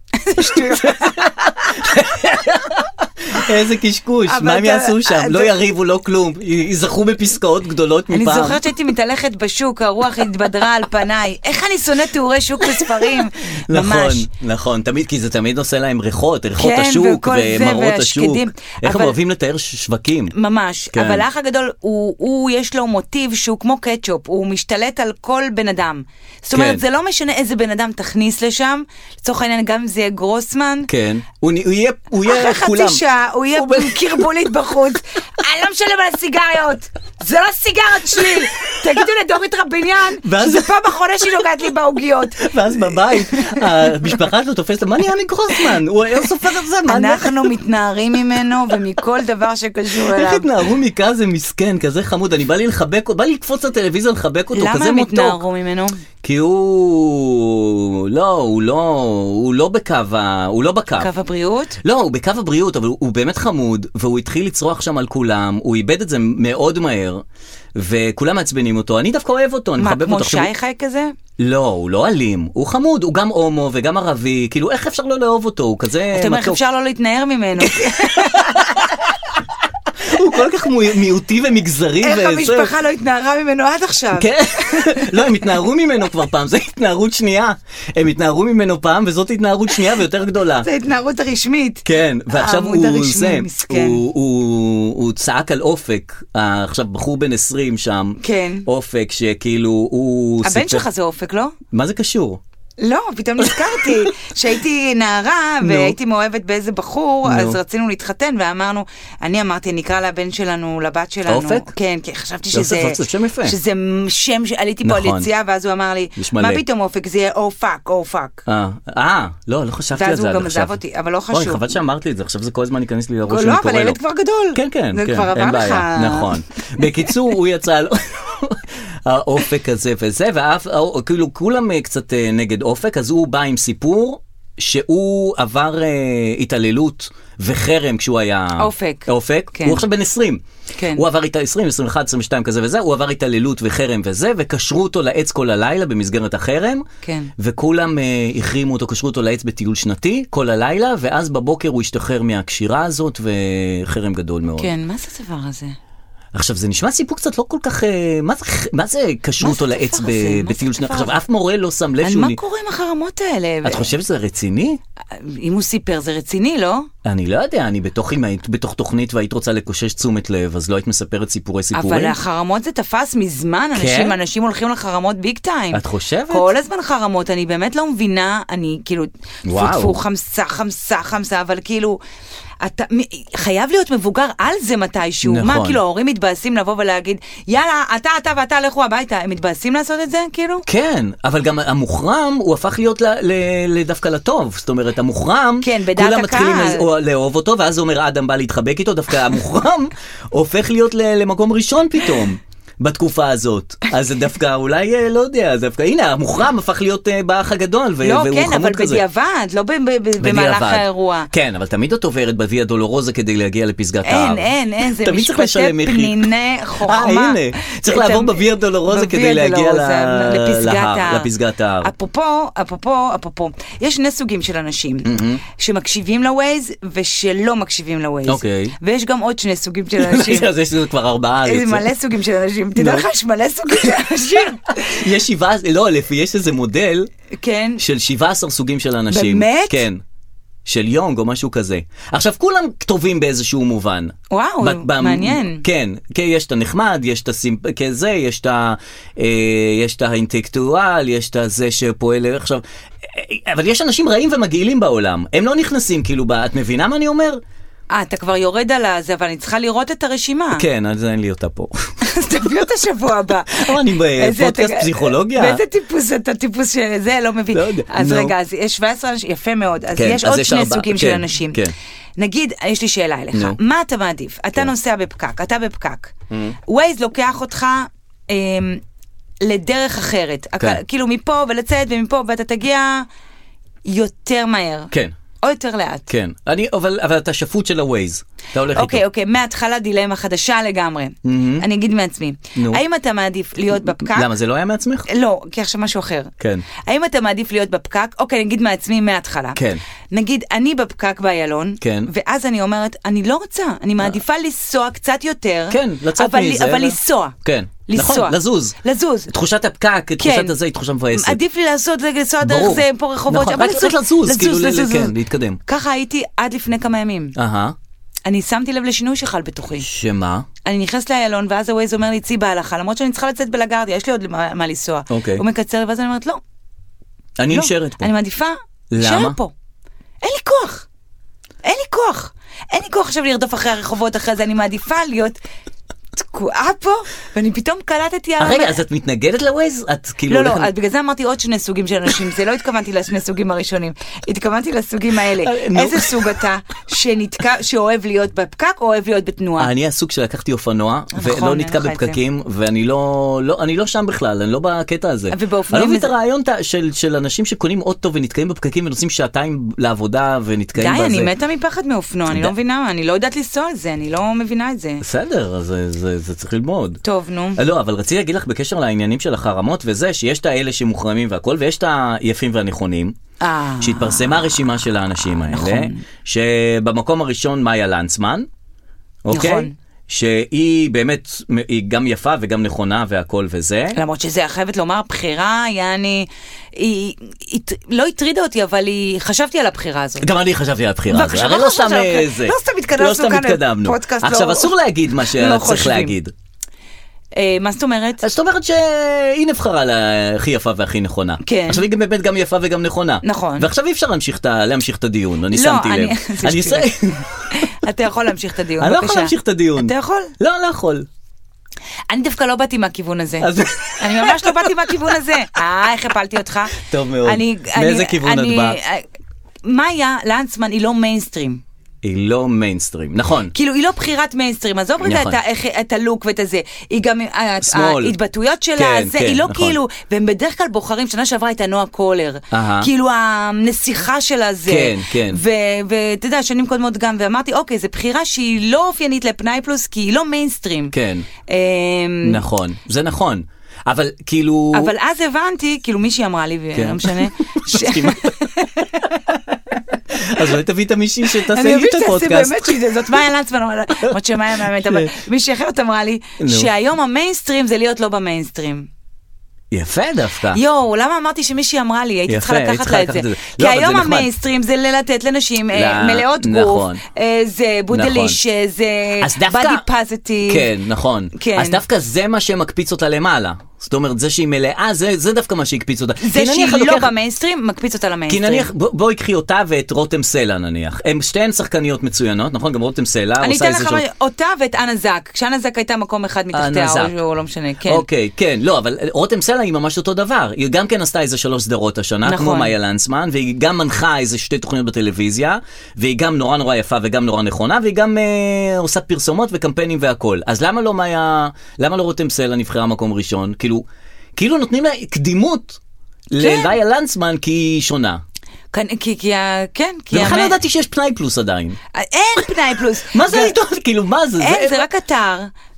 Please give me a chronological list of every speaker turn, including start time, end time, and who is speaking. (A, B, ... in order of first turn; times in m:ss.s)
0:00.2-0:01.8 A
0:00.4-0:08.6 B
0:04.3-0:05.5 A
0:08.1-0:14.3 A
0:12.6-0:20.3 B
0:16.6-0:19.2 A
0:20.3-0:30.9 A
0:20.9-0:21.3 B
0:26.5-0:26.8 B
0:30.9-0:33.0 B
0:32.2-0:44.2 A
0:33.5-0:34.3 B
0:38.4-0:38.9 B
0:40.2-0:41.5 B
0:42.4-0:47.6 B
0:46.8-0:50.5 A
0:50.0-0:55.4 B
0:54.5-0:56.0 A
0:56.2-1:01.1 B
1:01.0-1:01.8 A
1:01.8-1:07.2 B
1:07.8-1:10.5 B
1:09.8-1:11.1 A
1:11.4-1:16.6 B
1:16.1-1:18.8 A
1:17.6-1:19.1 B
1:20.0-1:22.7 B
1:22.0-1:25.3 A
1:24.2-1:30.7 B
1:30.6-1:34.0 A
1:31.8-1:40.9 B
1:38.2-1:38.7 A
1:40.4-1:41.6 A
1:41.7-1:42.4 B
1:42.8-1:58.4 A
1:43.4-1:44.1 B
1:45.6-1:46.0 B
1:47.2-1:47.6 B
1:51.3-1:51.7 B
1:52.5-1:53.6 B
1:54.8-1:55.3 B
1:56.2-1:56.6 B
1:58.5-2:00.8 B
2:00.0-2:01.7 A
2:01.3-2:04.0 B
2:03.3-2:07.1 A
2:04.5-2:20.4 B
2:18.6-2:19.8 A
2:20.8-2:21.0 A
2:21.0-2:26.9 B
2:27.0-2:27.3 A
2:27.4-2:34.7 B
2:34.6-2:35.8 A
2:36.3-2:42.4 B
2:39.4-2:41.2 A
2:42.0-2:43.9 A
2:43.6-2:44.8 B
2:45.1-2:46.9 A
2:47.0-2:52.2 B
2:51.7-3:02.0 A
2:53.8-2:54.2 B
2:55.7-2:56.5 B
2:59.5-3:00.0 B
3:02.6-3:10.7 A
3:05.2-3:05.8 B
3:10.7-3:29.0 B
3:15.6-3:16.9 A
3:28.0-3:31.3 A
3:30.2-3:41.9 B
3:34.0-3:41.3 A
3:41.8-3:50.5 A
3:45.0-3:45.4 B
3:48.3-3:48.8 B
3:50.0-3:51.9 B
3:51.4-3:55.0 A
3:52.8-3:53.1 B
3:54.9-3:57.1 B
3:57.4-3:57.8 A
3:57.8-4:00.0 B
3:59.1-3:59.8 A
4:00.6-4:17.4 B
4:04.3-4:05.6 A
4:17.9-4:20.7 A
4:20.5-4:22.6 B
4:22.0-4:31.6 A
4:23.5-4:25.6 B
4:27.5-4:28.4 B
4:30.0-4:31.8 B
4:32.2-4:36.1 A
4:36.3-4:36.6 B
4:36.7-4:38.8 A
4:39.4-4:43.1 A
4:43.8-4:46.1 A
4:46.1-4:49.0 B
4:48.7-4:54.3 A
4:51.2-4:51.7 B
4:52.6-4:52.8 B
4:54.0-4:55.1 B
4:55.1-5:07.4 A
4:56.4-4:56.7 B
4:59.6-4:59.8 B
5:01.8-5:02.1 B
5:05.7-5:08.8 B
5:07.9-5:09.3 A
5:09.3-5:11.4 B
5:10.2-5:10.6 A
5:11.1-5:15.2 A
5:12.4-5:15.6 B
5:15.7-5:17.4 A
5:17.4-5:17.8 B
5:18.3-5:19.9 A
5:19.8-5:20.5 B
5:20.6-5:26.4 A
5:25.1-5:25.4 B
5:27.4-5:28.1 B
5:27.5-5:29.5 A
5:28.9-5:29.4 B
5:30.2-5:30.9 A
5:31.6-5:35.4 A
5:36.2-5:38.8 A
5:38.4-5:40.7 B
5:40.3-5:49.7 A
5:45.3-5:46.4 B
5:49.6-6:01.3 B
5:51.1-5:52.2 A
5:55.3-5:56.1 A
6:00.8-6:05.0 A
6:02.3-6:02.5 B
6:05.0-6:07.0 B
6:07.0-6:07.6 A
6:07.6-6:13.2 B
6:13.4-6:14.3 A
6:13.8-6:18.5 B
6:15.5-6:16.0 A
6:19.2-6:24.0 B
6:19.3-6:19.8 A
6:23.9-6:30.3 A
6:30.2-6:36.3 B
6:31.1-6:36.2 A
6:37.4-6:38.2 A
6:38.2-6:47.7 B
6:41.4-6:41.8 A
6:43.2-6:43.7 A
6:45.5-6:50.3 A
6:48.8-6:51.1 B
6:52.1-6:59.0 A
6:53.4-6:55.1 B
6:56.8-6:58.8 B
6:59.6-7:01.6 A
7:02.0-7:03.5 B
7:03.5-7:20.9 A
7:05.0-7:05.4 B
7:07.6-7:08.2 B
7:08.8-7:09.8 B
7:12.5-7:12.9 B
7:14.7-7:15.4 B
7:20.9-7:21.3 B
7:21.5-7:22.4 A
7:22.2-7:24.9 B
7:24.7-7:29.1 A
7:26.8-7:28.4 B
7:29.0-7:29.6 B
7:30.1-7:33.2 B
7:31.5-7:38.9 A
7:34.0-7:35.1 B
7:36.4-7:36.7 B
7:39.7-7:40.6 B
7:40.5-7:50.7 A
7:42.3-7:44.3 B
7:45.7-7:47.0 B
7:47.9-7:48.4 B
7:49.2-7:49.8 B
7:50.5-7:57.1 B
7:51.4-7:51.8 A
7:56.2-7:58.7 A
7:58.3-8:04.0 B
8:03.4-8:08.0 A
8:06.5-8:07.1 B
8:07.9-8:23.8 B
8:12.2-8:12.7 A
8:24.4-8:25.8 B
8:26.3-8:28.2 B
8:26.4-8:26.7 A
8:28.7-8:30.6 A
8:30.1-8:31.8 B
8:31.9-8:33.6 A
8:33.1-8:34.9 B
8:34.4-8:35.5 A